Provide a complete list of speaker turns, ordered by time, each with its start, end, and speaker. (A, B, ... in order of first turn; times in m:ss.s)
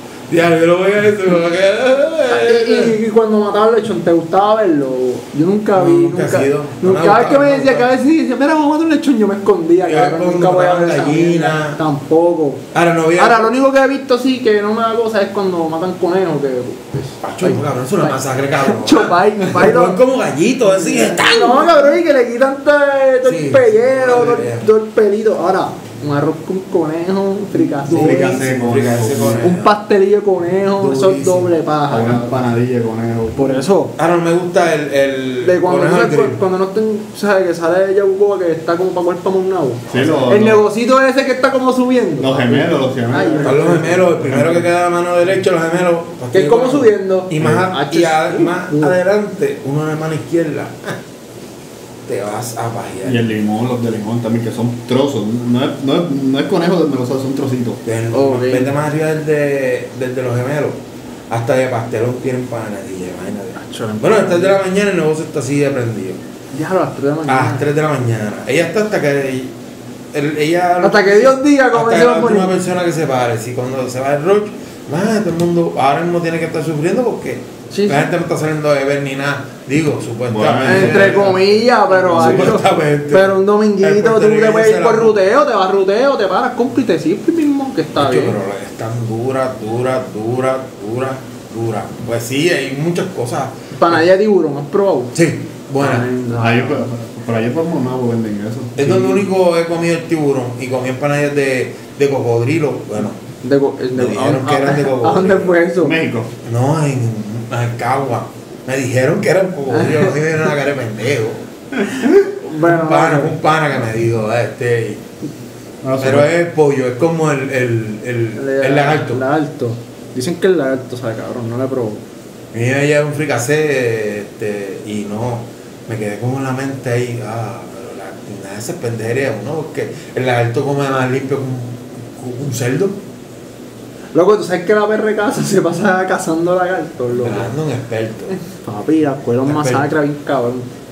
0:00.3-0:03.0 A
0:02.3-0:12.6 B
0:05.7-0:07.8 A
0:09.8-0:11.8 A
0:12.7-0:13.5 A
0:13.2-0:20.0 B
0:17.2-0:22.0 A
0:20.7-0:28.5 B
0:23.2-0:24.6 A
0:27.8-0:29.7 A
0:27.8-0:29.5 C
0:29.3-0:32.4 B
0:30.8-0:31.5 A
0:31.9-0:33.7 C
0:33.3-0:34.0 B
0:34.0-0:36.4 A
0:35.4-0:44.0 B
0:39.9-0:40.7 C
0:42.2-0:44.7 C
0:43.4-0:51.0 A
0:46.3-0:49.0 B
0:52.0-0:53.2 A
0:53.0-0:57.8 C
0:57.8-1:00.8 A
0:58.1-0:58.7 B
1:01.3-1:06.2 A
1:03.5-1:04.6 B
1:06.5-1:07.6 B
1:07.3-1:09.5 A
1:10.1-1:25.2 A
1:10.8-1:12.5 B
1:17.7-1:18.1 B
1:20.3-1:21.4 C
1:20.6-1:28.4 B
1:22.1-1:22.6 C
1:28.0-1:34.0 A
1:33.7-1:35.2 B
1:35.1-1:36.1 A
1:35.8-1:36.9 B
1:36.3-1:39.3 C
1:38.8-1:43.2 A
1:43.4-1:45.9 B
1:43.9-1:45.6 A
1:45.8-1:46.3 C
1:46.4-1:51.4 A
1:49.7-1:50.2 B
1:51.8-1:53.3 B
1:52.6-1:55.0 A
1:55.8-1:56.3 C
1:56.0-1:59.2 A
1:58.4-2:02.0 B
2:02.5-2:13.0 A
2:14.1-2:17.5 B
2:17.2-2:18.4 A
2:18.4-2:20.7 B
2:19.4-2:19.9 A